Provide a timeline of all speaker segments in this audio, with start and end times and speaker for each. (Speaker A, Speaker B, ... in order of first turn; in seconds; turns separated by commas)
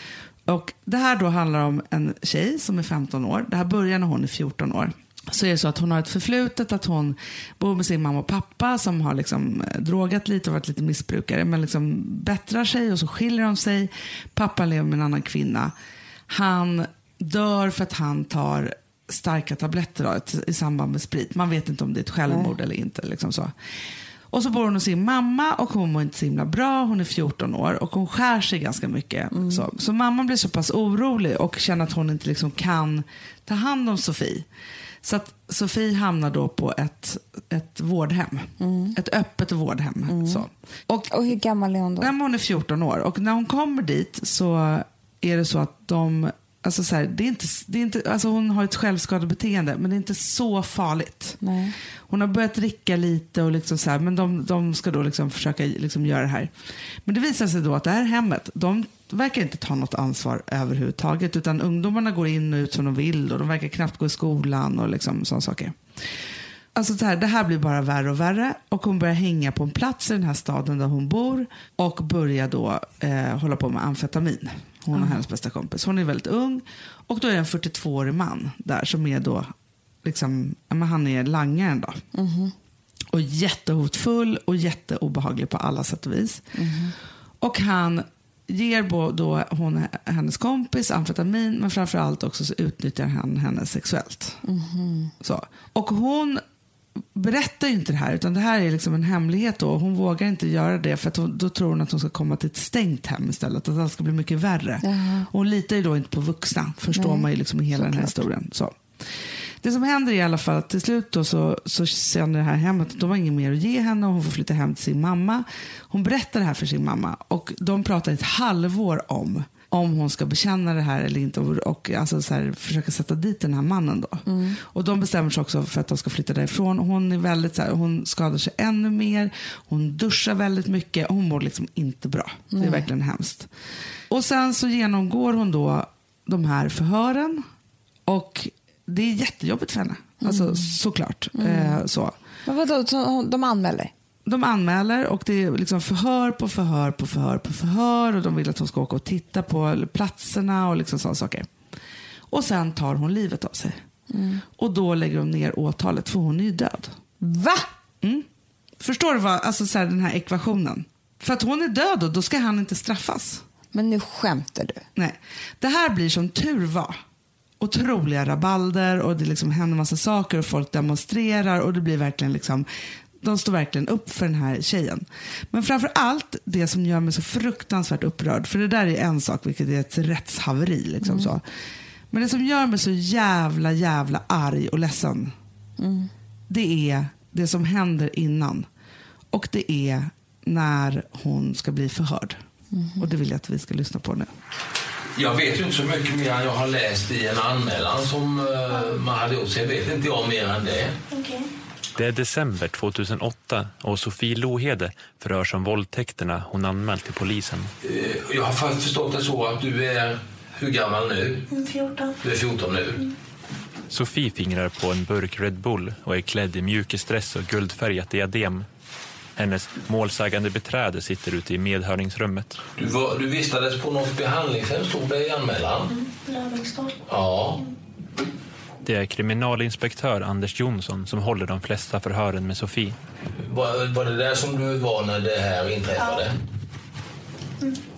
Speaker A: 0.5-15.7, Speaker A: 16.3-23.5, Speaker B: 22.3-22.5, Speaker A: 24.3-34.5, Speaker B: 29.3-29.7, Speaker A: 35.0-41.1, Speaker B: 38.6-39.0, Speaker B: 40.1-40.5, Speaker B: 41.1-42.1, Speaker A: 42.0-51.4, Speaker B: 51.4-51.8, Speaker A: 52.1-56.5, Speaker A: 57.0-65.8, Speaker A: 66.7-79.5, Speaker A: 80.0-82.0, Speaker B: 82.1-82.5, Speaker A: 83.1-86.5, Speaker B: 86.5-87.0, Speaker A: 87.4-94.4, Speaker B: 94.4-95.1, Speaker A: 95.2-96.4, Speaker A: 97.2-108.8, Speaker B: 104.8-105.3, Speaker B: 106.9-108.2, Speaker A: 109.6-133.5, Speaker B: 124.3-124.6, Speaker B: 132.5-132.9, Speaker A: 134.1-137.4, Speaker A: 138.1-142.2, Speaker B: 140.2-140.7, Speaker B: 141.3-141.8, Speaker B: 142.4-143.9, Speaker A: 144.3-151.5, Speaker A: 152.3-153.8, Speaker B: 154.1-154.4, Speaker A: 154.6-156.9, Speaker B: 157.2-157.7, Speaker A: 158.8-163.4, Speaker B: 163.7-164.8, Speaker A: 165.0-167.0, Speaker A: 167.6-172.7, Speaker A: 173.2-181.4, Speaker B: 181.0-181.3, Speaker A: 182.1-185.3, Speaker B: 185.8-186.1, Speaker A: 186.5-188.7, Speaker A: 189.3-192.4, Speaker B: 192.7-193.1, Speaker A: 193.0-194.3, Speaker C: 195.2-201.0, Speaker D: 201.1-201.5, Speaker E: 202.0-207.7, Speaker C: 207.8-211.5, Speaker D: 211.5-212.2, Speaker C: 212.2-213.0, Speaker E: 213.9-218.7, Speaker E: 219.4-222.6, Speaker C: 222.8-225.9, Speaker D: 225.9-227.0, Speaker C: 227.1-227.6, Speaker E: 228.8-233.0, Speaker C: 233.4-236.4